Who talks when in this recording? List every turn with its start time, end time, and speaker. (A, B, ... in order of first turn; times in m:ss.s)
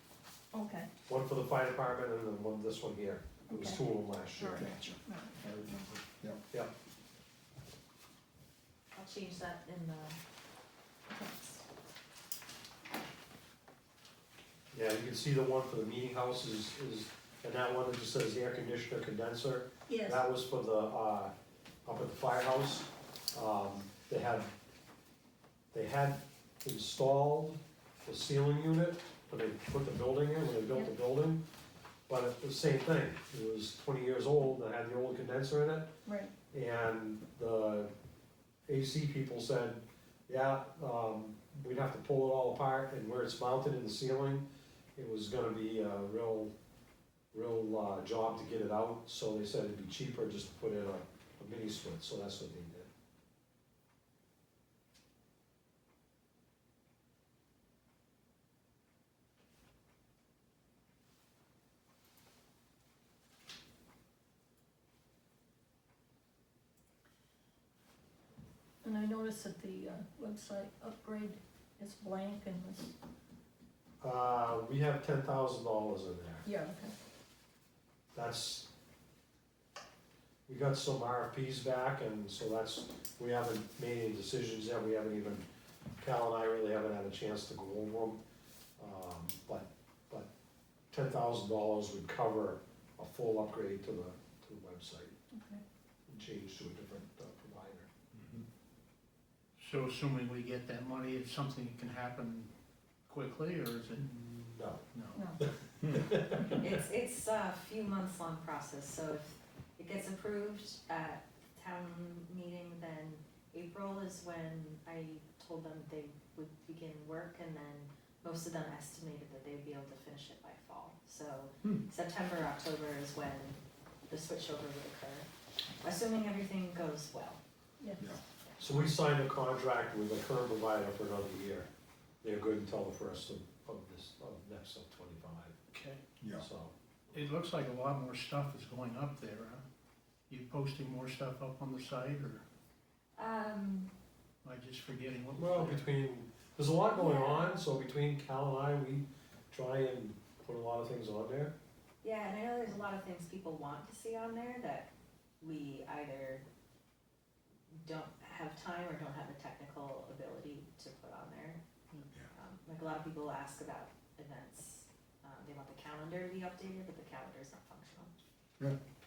0:00.5-0:00.9 A
0:01.1-0:04.6 B
0:03.5-0:03.8 A
0:04.4-0:05.8 A
0:04.5-0:06.4 C
0:09.0-0:10.2 D
0:11.1-0:11.4 D
0:14.7-0:21.3 B
0:19.9-0:20.2 A
0:21.9-0:24.5 B
0:25.7-0:31.4 B
0:32.1-0:35.9 B
0:36.0-0:36.3 A
0:36.5-0:37.9 B
0:38.7-0:46.5 B
0:47.3-0:52.9 B
1:08.8-1:12.9 A
1:14.0-1:16.5 B
1:16.4-1:16.9 A
1:18.1-1:18.7 B
1:20.5-1:25.4 B
1:26.0-1:28.2 B
1:28.8-1:30.3 B
1:30.9-1:35.2 B
1:35.3-1:35.6 A
1:36.1-1:37.9 B
1:39.6-1:42.5 E
1:43.1-1:44.1 E
1:44.0-1:44.8 B
1:44.9-1:45.2 E
1:45.1-1:45.4 A
1:45.4-1:46.7 B
1:46.4-2:03.6 D
2:04.1-2:05.3 D
2:05.8-2:07.4 D
2:07.8-2:08.1 A
2:08.6-2:11.7 B
2:12.2-2:15.6 B
2:15.7-2:16.0 E
2:16.2-2:16.5 C
2:16.4-2:16.7 B
2:17.1-2:19.6 E
2:20.3-2:22.4 E
2:23.2-2:23.9 D
2:24.4-2:25.8 E
2:25.4-2:31.5 B
2:26.9-2:27.6 D
2:32.0-2:34.9 D
2:35.4-2:36.4 D
2:37.8-2:41.6 D
2:42.3-2:48.1 D